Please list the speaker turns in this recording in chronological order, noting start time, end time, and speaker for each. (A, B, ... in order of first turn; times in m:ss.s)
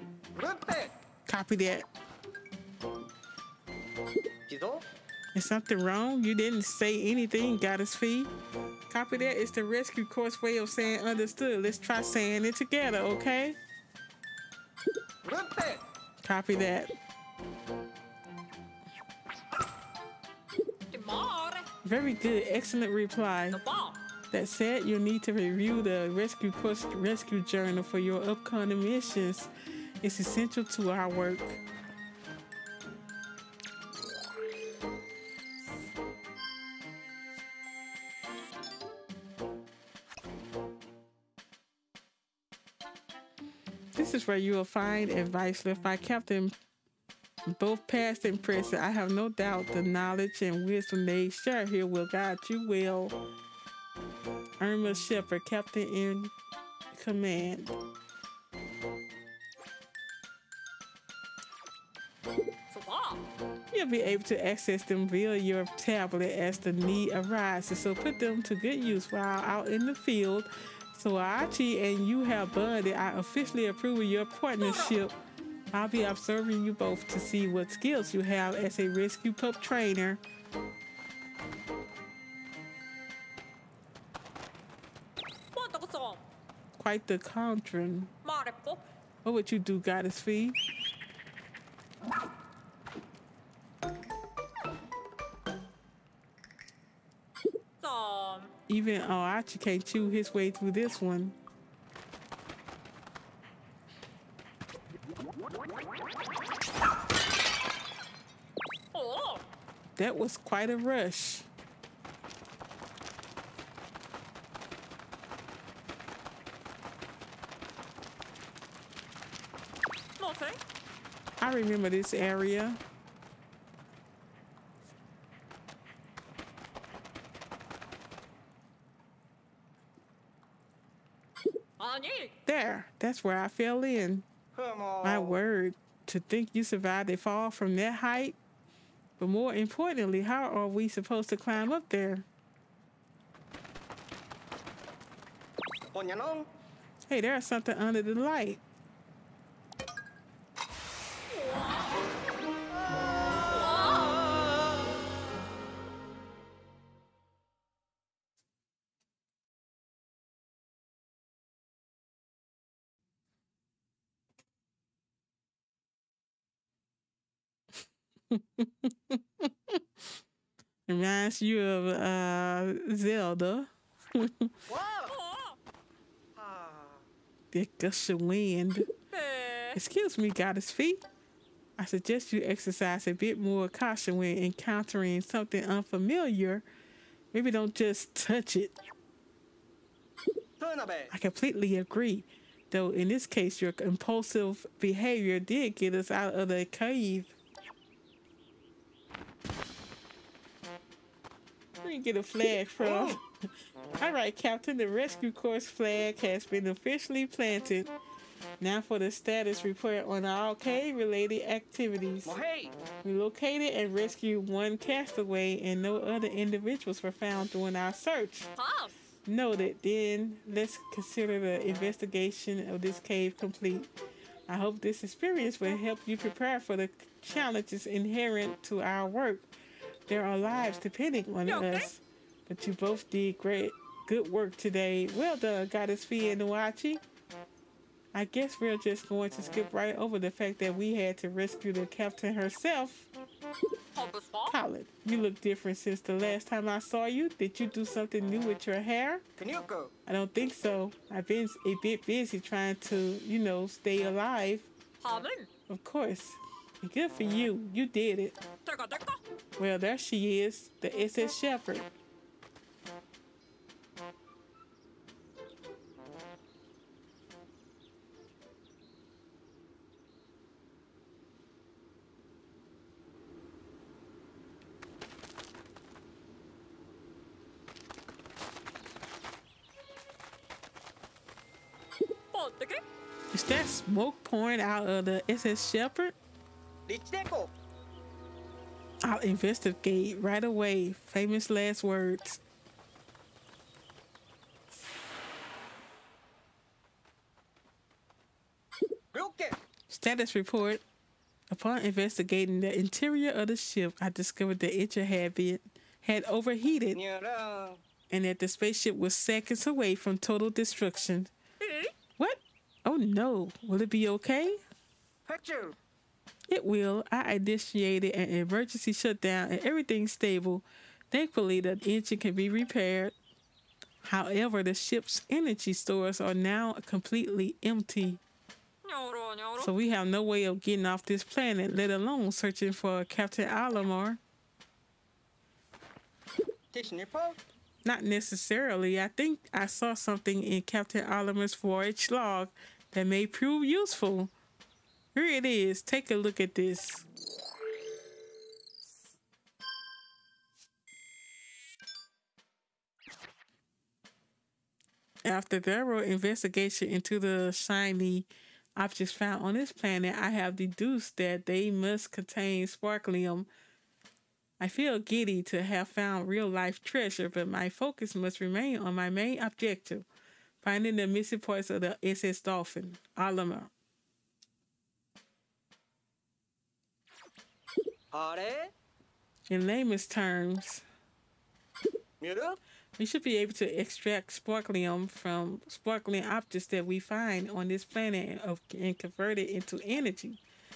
0:00.4-0:00.9 A
0:01.3-0:01.9 B
0:04.5-0:04.8 A
0:05.4-0:08.3 B
0:08.9-0:13.6 B
0:15.2-0:15.8 A
0:16.2-0:16.9 B
0:20.9-0:21.7 C
0:21.8-0:23.6 B
0:23.5-0:24.0 C
0:24.3-0:29.5 B
0:30.0-0:31.6 B
0:44.0-0:46.5 B
0:47.5-0:53.2 B
0:54.6-0:56.3 B
0:56.9-0:57.7 B
1:02.7-1:03.3 C
1:03.7-1:15.1 B
1:14.6-1:15.0 C
1:15.7-1:20.2 B
1:25.5-1:26.2 C
1:26.8-1:28.1 B
1:28.2-1:28.8 C
1:29.2-1:30.6 B
1:37.8-1:38.5 C
1:38.7-1:41.4 B
1:48.9-1:49.4 C
1:50.0-1:51.5 B
2:00.2-2:00.6 C
2:01.4-2:02.8 B
2:11.8-2:12.3 C
2:12.5-2:14.3 B
2:14.5-2:15.4 A
2:15.0-2:18.4 B
2:19.2-2:22.3 B
2:25.9-2:26.5 A
2:27.1-2:28.6 B
2:31.4-2:31.7 C
2:33.6-2:34.3 C
2:48.3-2:49.8 B
2:50.9-2:54.5 B
2:54.7-2:55.1 A
2:55.1-2:55.6 C
2:56.4-2:57.0 A
2:57.5-2:58.9 B
2:59.1-2:59.8 C
2:59.8-3:01.0 B
3:01.8-3:06.6 B
3:07.3-3:08.7 B
3:10.6-3:11.1 A
3:11.1-3:17.3 B
3:21.8-3:23.2 B
3:22.8-3:23.2 A
3:24.0-3:27.9 B
3:28.6-3:32.4 B
3:32.2-3:32.7 A
3:33.0-3:38.5 B
3:38.6-3:39.0 C
3:39.2-3:43.9 B
3:44.5-3:49.5 B
3:50.1-3:57.0 B
3:51.5-3:51.9 C
3:58.1-4:03.1 B
4:04.0-4:04.6 C
4:04.5-4:09.2 B
4:09.4-4:09.9 A
4:10.1-4:14.7 B
4:15.0-4:15.5 C
4:15.7-4:18.4 B
4:18.6-4:19.2 C
4:19.6-4:21.9 B
4:42.3-4:42.8 C
4:43.3-4:46.2 B
4:46.9-4:47.5 A
4:49.0-4:52.4 B
4:59.1-4:59.6 A
4:59.9-5:00.8 B
5:01.5-5:07.0 B
5:06.9-5:07.8 A
5:08.1-5:11.3 B
5:11.6-5:11.9 C
5:12.2-5:14.6 B
5:15.3-5:15.8 A
5:16.5-5:23.2 B
5:24.0-5:28.2 B
5:28.8-5:29.7 C
5:29.6-5:34.2 B
5:36.7-5:37.4 A
5:37.8-5:44.3 B
5:45.1-5:47.0 B
5:55.2-6:03.5 B
6:04.6-6:10.1 B
6:10.6-6:13.7 B
6:18.1-6:18.7 A
6:19.5-6:20.8 B
6:22.2-6:22.6 A
6:23.0-6:30.4 B